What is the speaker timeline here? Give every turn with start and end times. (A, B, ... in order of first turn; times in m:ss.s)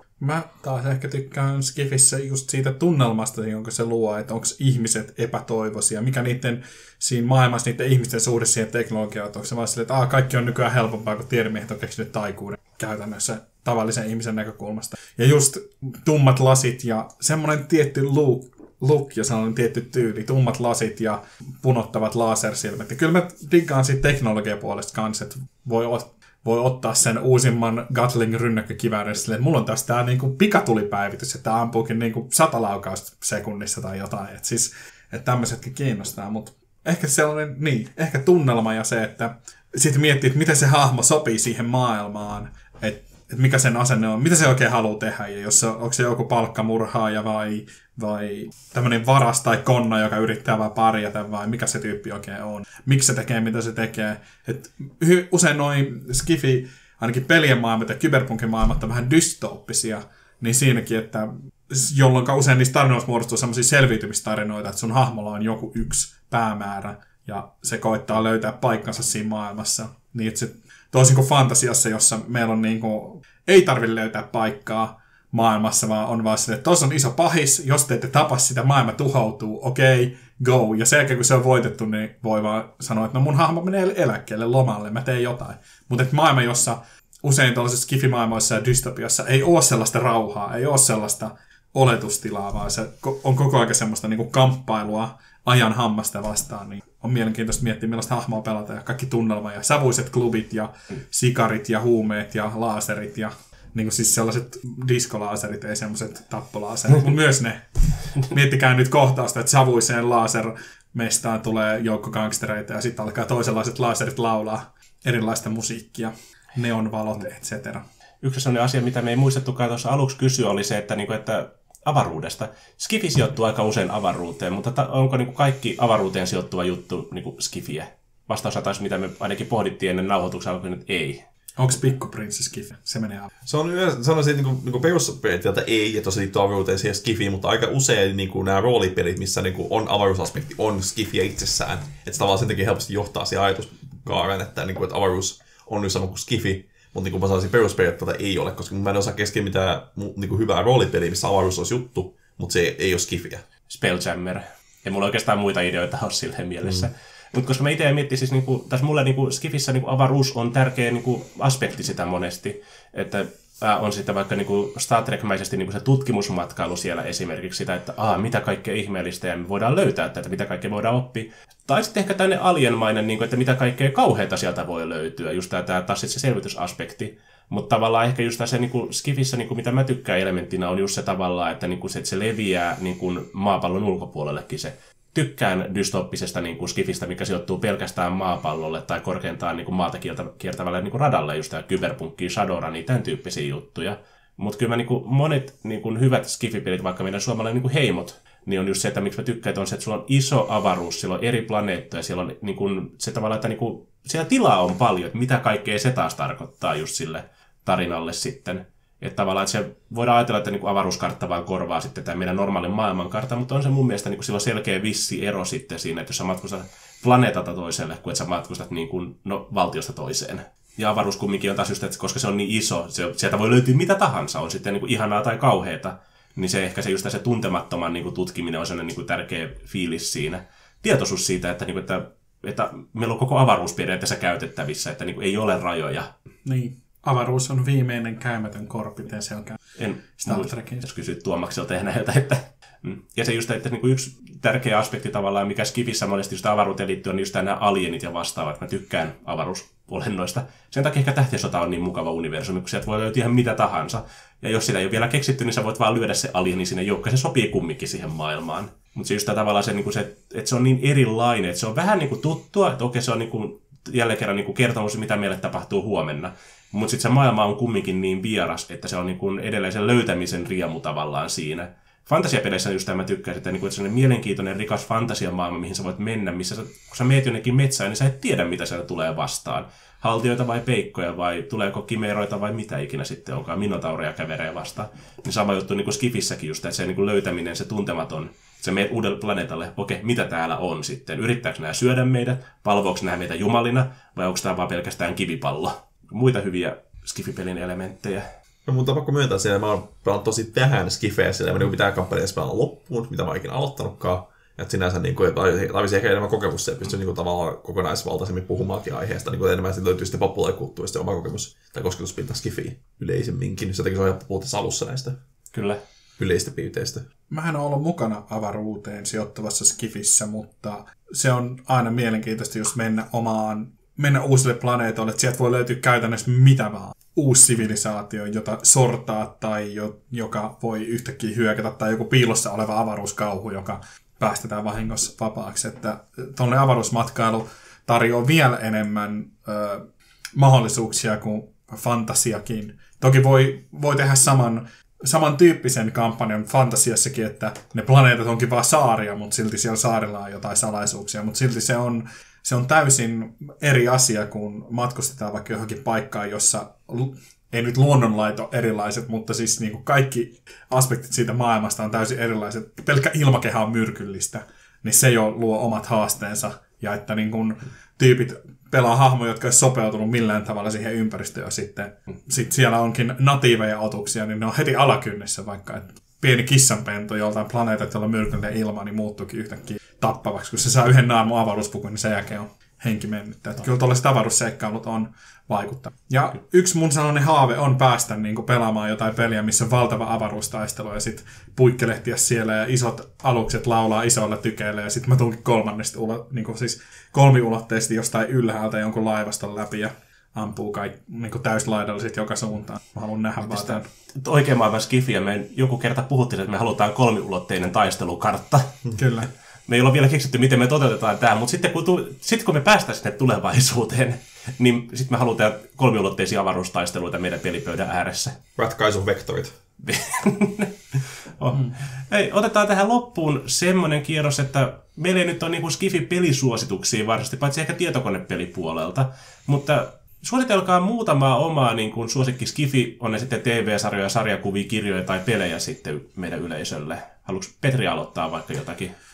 0:00.2-1:47.6 A
1:48.2-1:57.8 A
1:58.2-2:11.2 B
2:11.6-2:13.3 A
2:13.4-2:33.4 C
2:33.7-3:56.1 B
3:56.4-3:59.6 A
3:59.8-4:58.2 B
4:00.2-4:00.8 A
4:58.6-5:15.2 C
5:15.5-5:15.8 B
5:16.2-5:17.0 C
5:17.3-6:43.8 A
6:43.4-6:48.8 B
6:49.0-6:49.3 A
6:49.7-6:58.4 B
6:58.6-6:59.6 C
6:59.8-7:18.9 B